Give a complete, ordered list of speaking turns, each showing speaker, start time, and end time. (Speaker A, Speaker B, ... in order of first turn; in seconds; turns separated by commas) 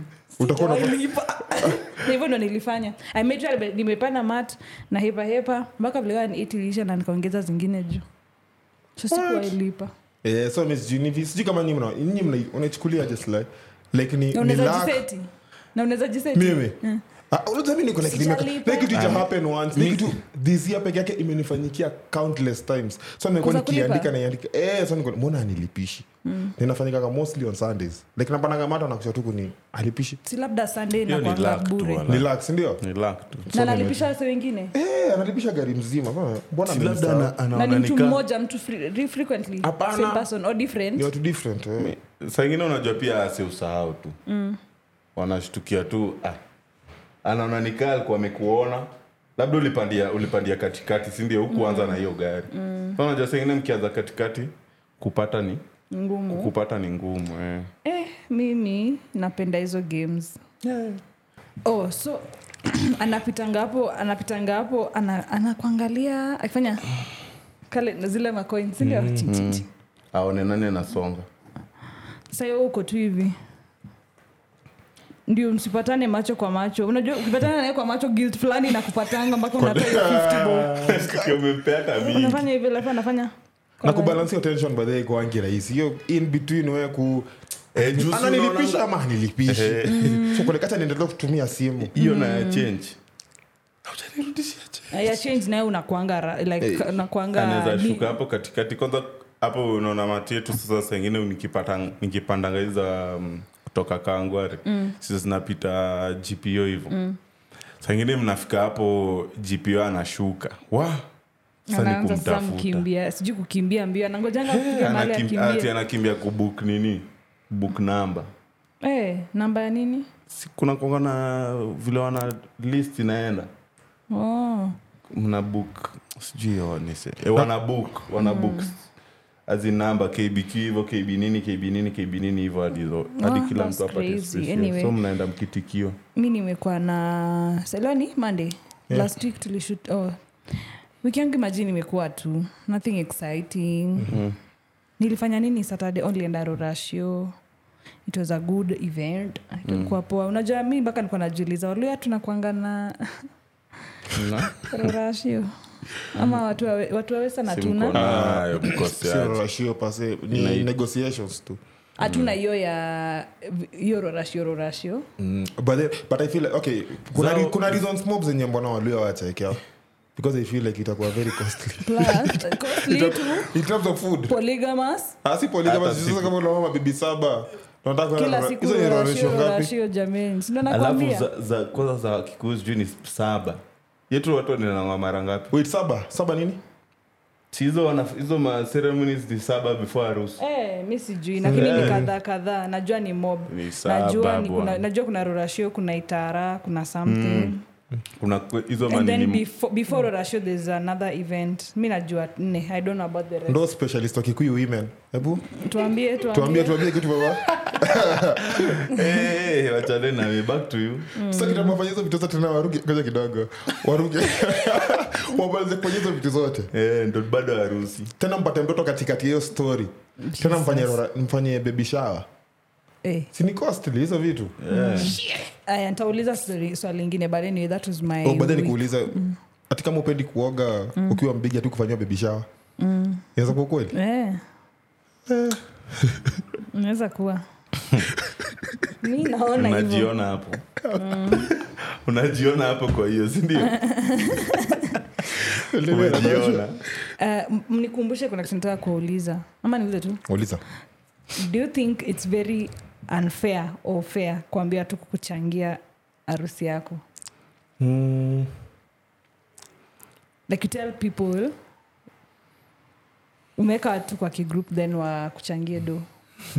Speaker A: 0.3-8.0, Speaker B: 0.4-1.0, Speaker A: 9.0-9.9, Speaker B: 10.2-15.0, Speaker A: 14.3-17.0, Speaker B: 16.3-16.8, Speaker B: 17.3-30.2, Speaker A: 18.0-19.2, Speaker C: 18.9-20.1, Speaker A: 23.4-24.1, Speaker A: 26.2-26.5, Speaker A: 30.2-32.0, Speaker C: 31.1-32.3, Speaker B: 32.0-32.8, Speaker C: 32.8-33.5, Speaker B: 33.5-34.0, Speaker A: 33.5-34.7, Speaker B: 34.7-37.4, Speaker C: 36.7-38.2, Speaker A: 37.5-41.1, Speaker B: 39.6-40.3, Speaker B: 41.0-41.9, Speaker C: 41.8-44.2, Speaker A: 44.2-44.6, Speaker C: 45.1-46.4, Speaker C: 47.2-55.6, Speaker A: 51.5-53.0, Speaker A: 55.9-56.5, Speaker C: 56.3-57.7, Speaker A: 57.8-60.4, Speaker C: 60.6-61.0, Speaker A: 61.6-66.8, Speaker A: 67.7-69.7, Speaker B: 68.8-69.2, Speaker C: 69.2-71.2, Speaker A: 72.3-73.3, Speaker A: 75.3-80.8, Speaker B: 79.6-81.4, Speaker C: 80.8-82.5, Speaker A: 82.0-84.2, Speaker B: 83.8-91.9, Speaker C: 87.7-88.8, Speaker C: 89.5-90.3, Speaker A: 89.8-90.5, Speaker C: 91.9-93.0, Speaker A: 92.0-92.7, Speaker C: 93.8-95.1, Speaker A: 94.9-98.2, Speaker C: 96.6-106.9, Speaker A: 104.7-105.0, Speaker A: 106.9-107.2, Speaker C: 107.8-111.0, Speaker A: 111.7-115.7, Speaker C: 111.7-112.8, Speaker C: 114.5-118.3, Speaker A: 118.8-120.1, Speaker C: 120.3-123.5, Speaker A: 124.1-124.8, Speaker C: 125.1-128.7, Speaker A: 128.2-128.7, Speaker C: 129.5-136.0, Speaker A: 133.1-134.9, Speaker A: 136.1-140.2, Speaker A: 141.0-144.2, Speaker C: 144.0-144.3, Speaker A: 145.0-147.3, Speaker A: 148.1-153.2, Speaker C: 149.7-150.0, Speaker C: 154.1-154.7, Speaker A: 154.6-155.5, Speaker A: 156.1-158.0, Speaker C: 156.1-156.4, Speaker C: 157.5-159.4, Speaker B: 157.9-161.6, Speaker C: 160.3-160.7, Speaker A: 162.0-165.1, Speaker C: 162.0-162.4, Speaker B: 165.2-169.6, Speaker C: 167.1-167.8, Speaker B: 170.2-174.3, Speaker A: 171.8-173.5, Speaker A: 174.3-175.1, Speaker B: 175.2-179.7, Speaker C: 175.6-176.3, Speaker A: 178.2-181.3, Speaker C: 180.7-185.5, Speaker B: 185.5-186.6, Speaker C: 187.5-190.4, Speaker A: 190.4-197.6, Speaker B: 191.4-192.1, Speaker C: 191.5-192.0, Speaker C: 193.5-194.8, Speaker C: 197.1-197.5, Speaker C: 198.2-199.4, Speaker A: 198.8-203.6, Speaker B: 203.5-205.5, Speaker A: 205.5-206.9, Speaker B: 206.3-208.9, Speaker C: 208.4-211.1, Speaker A: 211.1-211.8, Speaker B: 211.2-216.7, Speaker C: 216.7-218.1, Speaker B: 218.2-222.2, Speaker A: 220.2-221.0, Speaker A: 223.0-223.3, Speaker B: 223.3-224.6, Speaker C: 224.6-225.2, Speaker A: 224.7-229.4, Speaker B: 228.2-232.5, Speaker A: 230.9-231.2, Speaker A: 232.8-233.2, Speaker B: 233.3-233.9, Speaker A: 233.9-234.4, Speaker B: 235.3-236.4, Speaker A: 236.7-237.4, Speaker B: 238.3-238.7, Speaker A: 239.0-240.1, Speaker C: 239.6-240.7, Speaker B: 240.8-241.4, Speaker A: 240.9-241.5, Speaker C: 241.3-243.8, Speaker A: 243.6-245.0, Speaker C: 245.3-246.8, Speaker B: 245.5-246.7, Speaker A: 247.2-250.2, Speaker B: 250.3-250.6, Speaker A: 251.3-257.0, Speaker B: 257.8-258.5, Speaker A: 260.5-261.5, Speaker A: 263.6-266.0